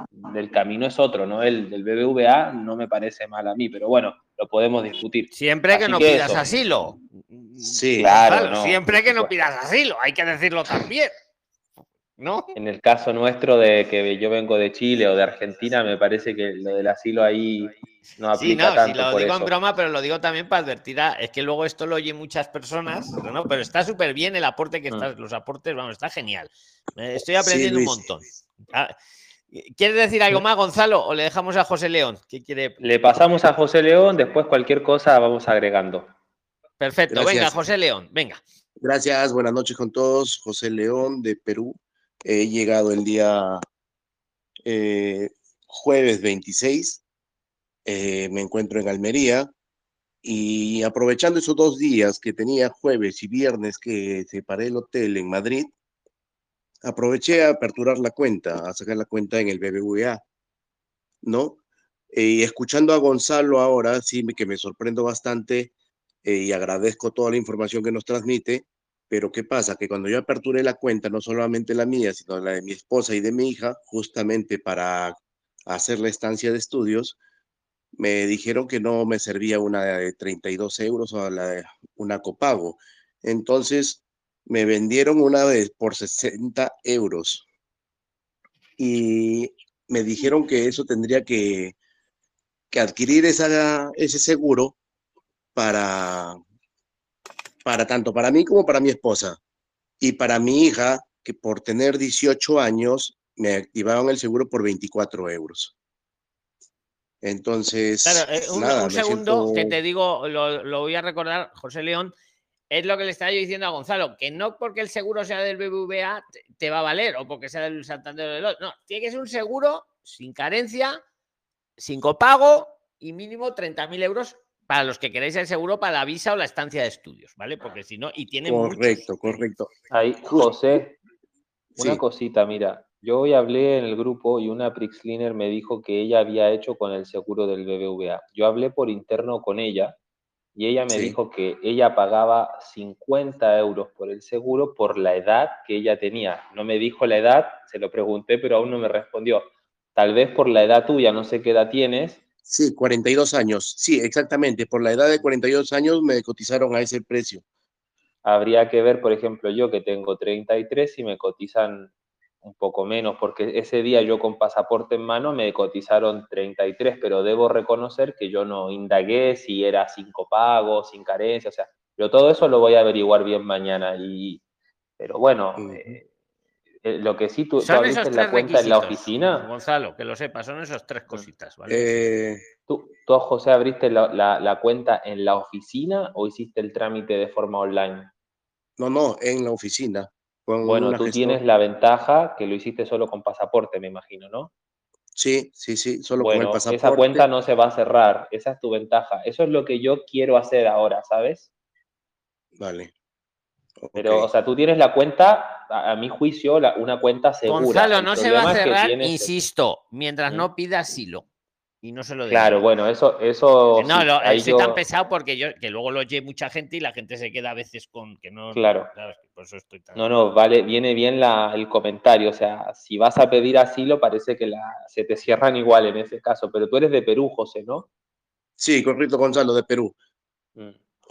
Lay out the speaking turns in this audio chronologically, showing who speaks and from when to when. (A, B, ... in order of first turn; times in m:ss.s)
0:00.2-0:06.6 A
0:05.3-0:11.1 B
0:07.6-0:08.2 C
0:08.0-0:09.4 A
0:12.2-0:12.5 B
0:12.6-0:19.5 A
0:18.4-0:28.9 B
0:27.4-0:28.0 C
0:29.5-0:32.8 B
0:32.8-0:36.1 A
0:36.8-0:38.4 B
0:37.1-0:37.5 C
0:38.8-0:43.6 C
0:44.7-0:47.0 C
0:47.9-0:49.5 C
0:50.2-0:55.7 C
0:56.8-1:00.2 C
1:01.2-1:01.6 C
1:02.1-1:05.7 C
1:06.2-1:17.2 C
1:18.0-1:27.4 C
1:28.8-1:31.8 C
1:32.7-1:34.8 C
1:35.6-1:36.4 C
1:37.6-1:39.4 C
1:40.0-1:45.7 C
1:47.2-1:49.8 C
1:48.0-1:52.1 B
1:52.7-2:01.0 B
2:01.8-2:09.4 B
2:08.4-2:09.7 C
2:09.9-2:11.0 A
2:10.2-2:10.5 C
2:11.8-2:12.0 C
2:11.8-2:20.0 A
2:20.6-2:32.2 A
2:20.9-2:21.2 C
2:32.5-2:37.4 C
2:38.2-2:41.9 A
2:42.4-2:54.4 A
2:55.0-2:56.0 A
2:55.6-2:56.0 C
2:56.8-2:59.5 A
2:57.6-3:02.1 B
3:01.7-3:02.4 C
3:02.7-3:08.1 A
3:08.8-3:11.4 C
3:10.6-3:14.5 A
3:15.2-3:17.3 C
3:16.2-3:21.5 A
3:22.6-3:22.9 C
3:23.8-3:24.3 C
3:24.0-3:29.3 A
3:27.5-3:31.2 B
3:31.8-3:32.6 B
3:32.3-3:34.8 A
3:33.8-3:40.1 B
3:38.5-3:38.9 A
3:40.0-3:47.9 A
3:48.6-3:49.9 C